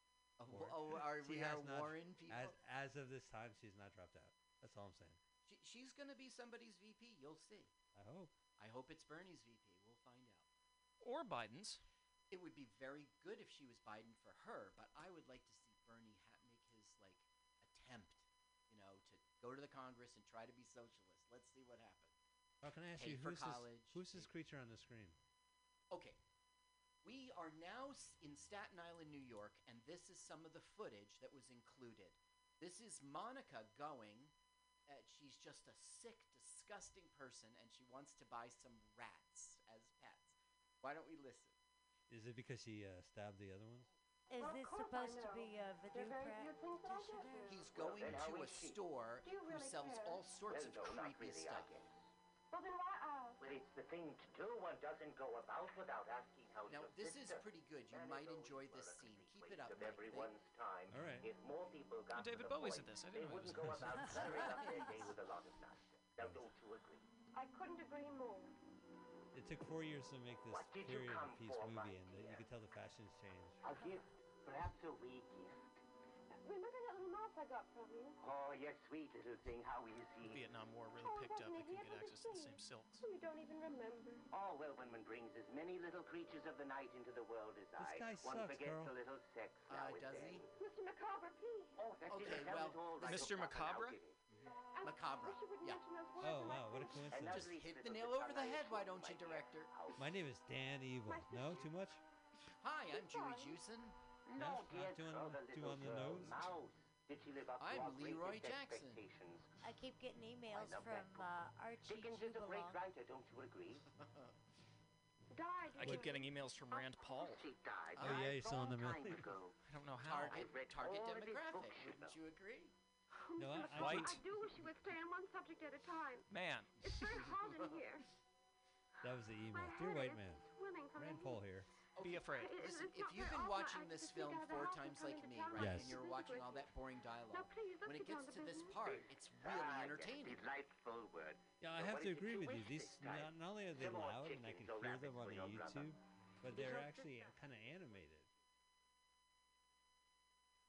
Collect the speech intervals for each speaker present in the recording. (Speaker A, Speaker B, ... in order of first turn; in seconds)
Speaker A: 0.4-2.5, 5.5-7.7, 8.6-10.4, 12.3-22.1, 23.0-24.3, 25.9-26.2, 27.0-34.3, 34.9-41.6, 47.5-51.7, 56.7-60.3, 64.1-65.0, 89.7-90.5, 92.1-93.3, 94.3-95.8, 97.2-99.7, 102.6-104.0, 107.6-109.0, 114.0-114.3, 118.0-118.2, 120.0-122.7, 132.0-140.4
Speaker B: 0.5-5.2, 8.0-8.3, 22.6-25.2, 42.1-43.9, 60.9-61.3, 63.5-64.5, 66.2-66.5, 69.3-73.6, 87.8-89.0, 96.2-97.6, 100.0-102.0, 104.4-106.5, 115.8-116.1, 118.0-119.3, 123.4-124.2, 129.0-131.7, 135.6-136.0, 141.6-148.3
Speaker C: 11.0-11.8, 62.1-64.1, 80.2-83.0, 93.0-94.0, 115.7-117.5, 119.7-120.5, 123.7-124.2, 126.3-127.2, 132.0-132.6
Speaker D: 44.3-47.6, 109.6-112.8
Speaker E: 44.4-47.6, 49.2-50.3, 52.5-53.4, 67.3-68.5, 76.4-78.2, 81.0-84.2, 90.5-91.8, 94.7-97.1, 101.1-101.7, 102.9-103.6, 115.3-117.2, 123.1-126.3, 126.8-128.1, 129.5-131.4, 132.3-136.7, 137.3-138.8, 146.5-147.1
Speaker F: 47.7-48.8, 50.5-51.9, 53.4-67.0, 70.5-72.5, 73.6-75.8, 78.2-80.4, 84.3-90.5, 91.8-94.2, 97.1-100.1, 104.3-109.5, 110.5-111.3, 111.9-113.9, 117.3-119.6, 120.3-122.2, 138.8-146.0